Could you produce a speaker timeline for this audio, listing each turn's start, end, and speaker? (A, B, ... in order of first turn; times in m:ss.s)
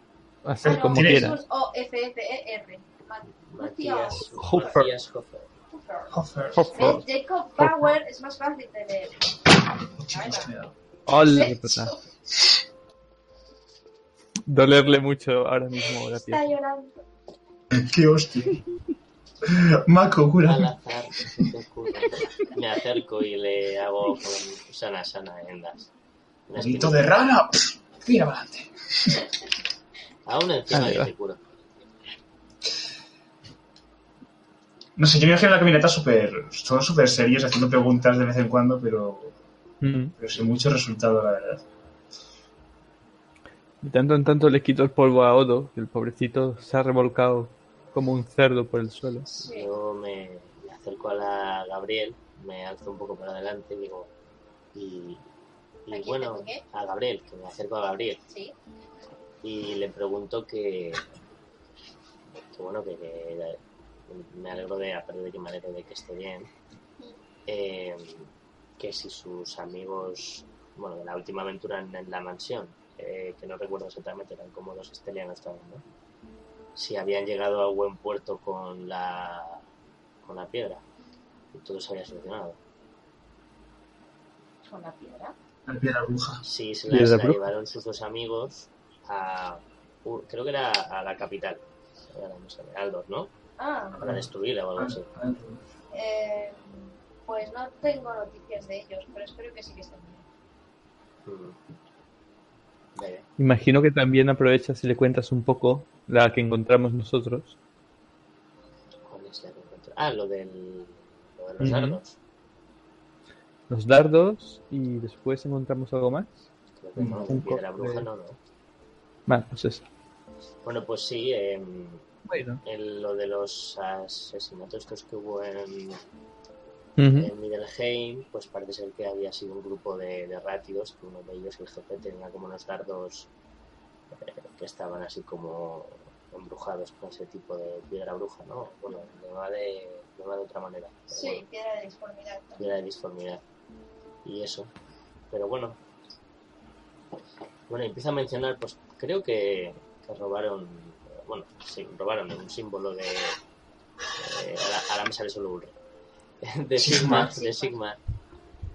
0:00.4-0:01.4 A
0:00.6-0:04.7 B
0:00.7-0:01.3 C
0:03.5-0:05.5 D
0:04.4-0:04.9 A
0:05.7-0:06.2 B
0:06.1-0:07.0 C
0:06.6-0:06.9 A
0:06.7-0:09.2 B
0:07.6-0:07.8 A
0:10.0-0:10.7 C
0:10.1-0:10.5 B
0:11.1-0:11.9 A
0:11.2-0:12.0 B
0:14.4-0:16.4 A
0:15.8-0:16.9 B
0:17.7-0:18.6 C
0:19.4-0:20.7 C
0:20.4-0:25.9 D
0:26.5-0:27.1 D
0:26.6-0:29.2 C
0:30.2-0:31.4 D
0:30.7-0:31.1 A
0:35.0-0:39.3 C
0:39.8-0:40.1 A
0:40.2-0:41.6 C
0:43.8-0:49.2 A
0:49.2-0:49.7 B
0:49.5-0:54.1 D
0:54.7-0:55.2 D
0:55.8-0:58.2 D
0:55.9-0:56.6 B
0:58.3-0:58.5 B
0:59.4-1:01.0 D
1:02.5-1:06.5 D
1:07.5-1:15.8 D
1:16.8-1:19.6 D
1:20.2-1:20.8 D
1:21.5-1:22.6 D
1:24.6-1:25.3 B
1:25.6-1:26.4 C
1:26.4-1:33.3 D
1:26.9-1:27.4 A
1:33.6-1:34.0 B
1:34.0-1:35.1 D
1:34.0-1:34.2 C
1:34.8-1:35.6 C
1:35.9-1:40.2 B
1:41.2-1:41.6 D
1:43.0-1:43.2 D
1:43.4-1:47.6 A
1:49.1-1:52.1 D
1:51.6-1:52.0 A
1:53.7-1:56.4 A
1:56.8-1:58.4 D
1:57.0-1:57.3 C
1:57.3-1:58.1 A
1:59.3-1:59.8 A
2:00.6-2:02.1 D
2:02.3-2:02.6 A
2:02.6-2:06.0 D
2:07.0-2:07.3 A
2:07.1-2:13.3 D
2:14.1-2:21.4 D
2:21.1-2:22.7 B
2:22.6-2:23.4 D
2:24.2-2:24.7 D
2:25.3-2:25.8 D
2:27.7-2:33.4 D
2:34.2-2:35.7 D
2:36.4-2:38.0 D
2:36.8-2:37.3 C
2:37.0-2:37.7 B